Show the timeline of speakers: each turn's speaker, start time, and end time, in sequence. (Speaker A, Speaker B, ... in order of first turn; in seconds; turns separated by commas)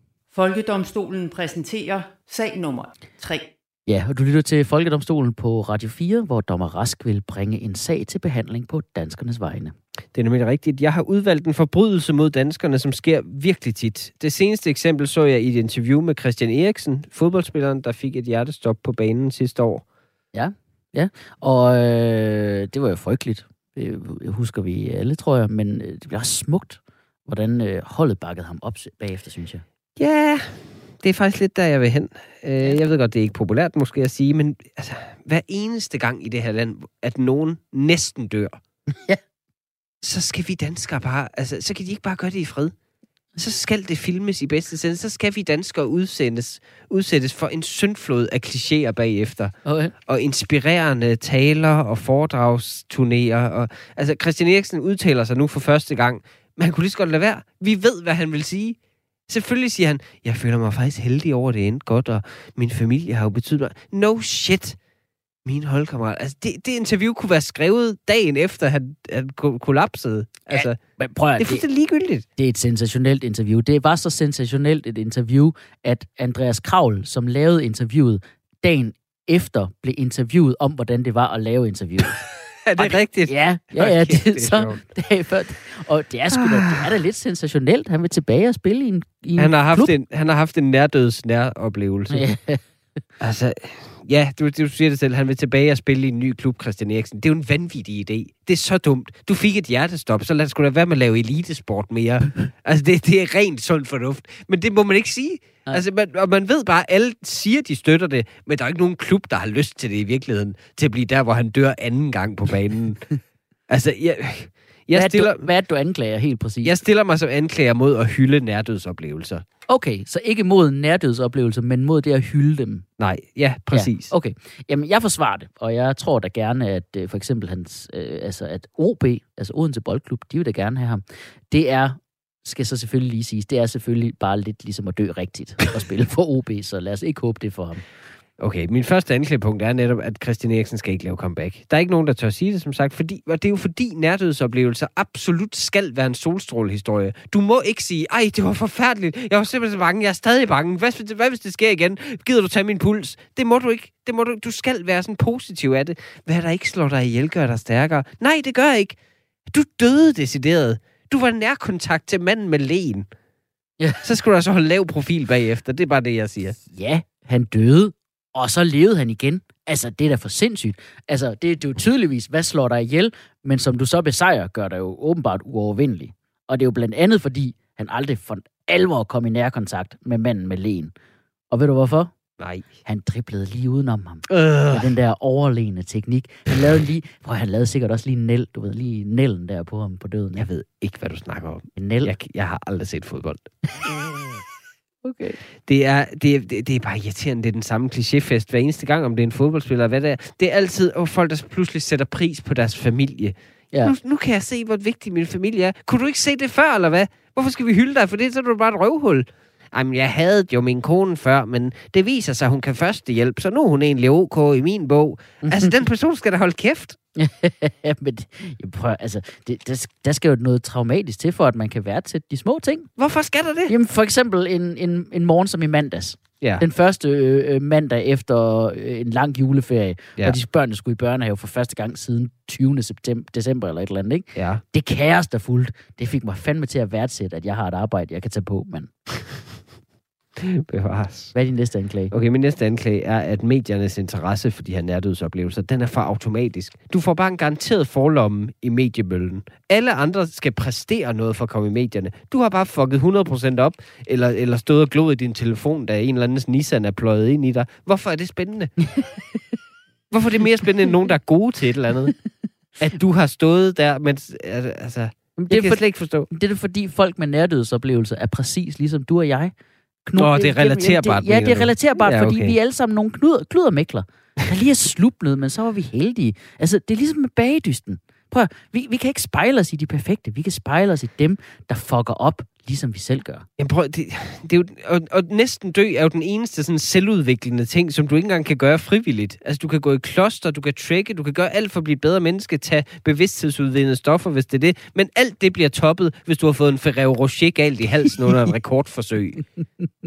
Speaker A: 0.3-3.5, Speaker B: 3.9-9.7, Speaker C: 10.1-19.8, Speaker B: 20.3-29.6, Speaker C: 30.0-38.6, Speaker B: 38.9-39.2, Speaker C: 40.0-42.7, Speaker C: 43.4-64.8, Speaker B: 49.6-49.9, Speaker C: 65.4-70.8, Speaker B: 70.5-71.6, Speaker C: 71.4-72.2, Speaker B: 72.4-82.2, Speaker C: 82.5-84.8, Speaker B: 82.8-89.9, Speaker C: 86.3-86.8, Speaker C: 89.4-92.2, Speaker B: 92.1-92.6, Speaker C: 93.2-113.1, Speaker C: 113.7-115.5, Speaker B: 114.9-116.8, Speaker C: 116.6-119.4, Speaker B: 119.7-122.8, Speaker C: 123.0-124.1, Speaker B: 123.7-137.8, Speaker C: 138.4-159.0, Speaker C: 159.5-163.1, Speaker C: 164.0-166.6, Speaker B: 166.7-180.9, Speaker B: 181.5-182.1, Speaker C: 182.4-182.7, Speaker B: 182.8-190.5, Speaker C: 184.3-184.9, Speaker C: 190.4-194.3, Speaker B: 191.8-192.1, Speaker B: 195.0-195.4, Speaker C: 195.6-217.0, Speaker B: 215.5-215.8, Speaker B: 217.2-222.9, Speaker C: 223.0-223.7, Speaker B: 223.7-238.9, Speaker C: 234.3-234.6, Speaker C: 240.4-241.3, Speaker B: 241.3-242.1, Speaker C: 242.1-258.7, Speaker C: 260.1-262.1, Speaker C: 262.8-266.3, Speaker B: 265.4-269.5, Speaker B: 270.0-283.4, Speaker C: 270.1-272.6, Speaker C: 283.6-299.4